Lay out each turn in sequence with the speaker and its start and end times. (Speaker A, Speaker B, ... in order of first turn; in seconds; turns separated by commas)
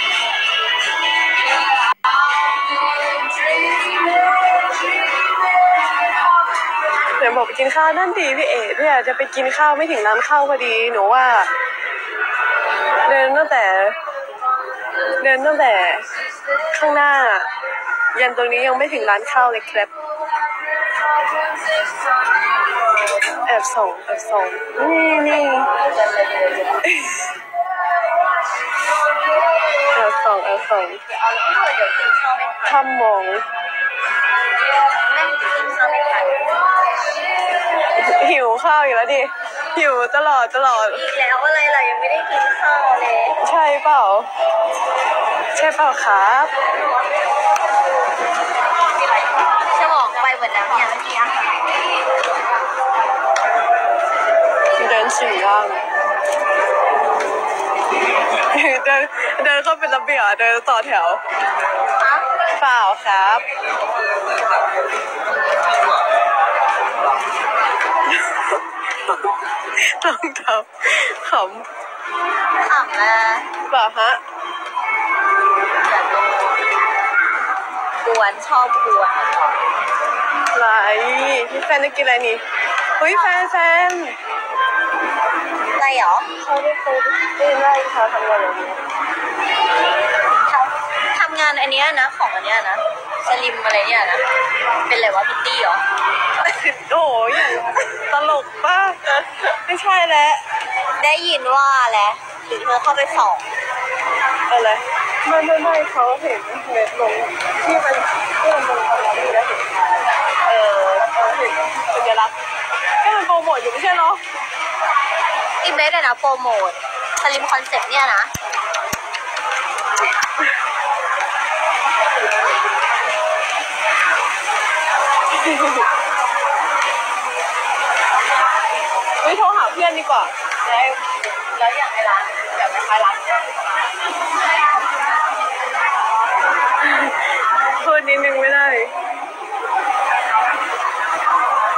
Speaker A: 7.2-11.5, Speaker A: 13.0-14.0, Speaker A: 15.2-17.5, Speaker A: 18.1-19.9, Speaker A: 23.4-25.8, Speaker B: 26.1-26.8, Speaker A: 26.8-27.2, Speaker A: 29.9-31.0, Speaker B: 31.1-32.8, Speaker A: 32.6-33.4, Speaker B: 34.9-36.7, Speaker A: 37.9-41.0, Speaker B: 40.7-43.4, Speaker A: 43.4-44.3, Speaker A: 45.5-46.5, Speaker B: 49.6-51.7, Speaker A: 54.8-55.8, Speaker A: 58.4-61.2, Speaker B: 62.0-62.2, Speaker A: 62.6-63.4, Speaker A: 68.2-71.6, Speaker B: 72.6-73.5, Speaker A: 73.7-74.2, Speaker B: 75.8-76.5, Speaker B: 78.0-79.5, Speaker A: 80.5-82.4, Speaker A: 83.0-84.2, Speaker B: 85.8-86.3, Speaker A: 86.4-88.8, Speaker B: 90.5-94.2, Speaker B: 94.8-95.8, Speaker A: 96.5-100.4, Speaker B: 101.0-103.5, Speaker A: 104.5-110.1, Speaker B: 110.4-111.0, Speaker A: 110.9-112.3, Speaker A: 113.0-114.2, Speaker B: 115.6-118.3, Speaker A: 125.3-125.8, Speaker A: 129.2-130.4, Speaker B: 130.6-133.7, Speaker A: 136.8-138.9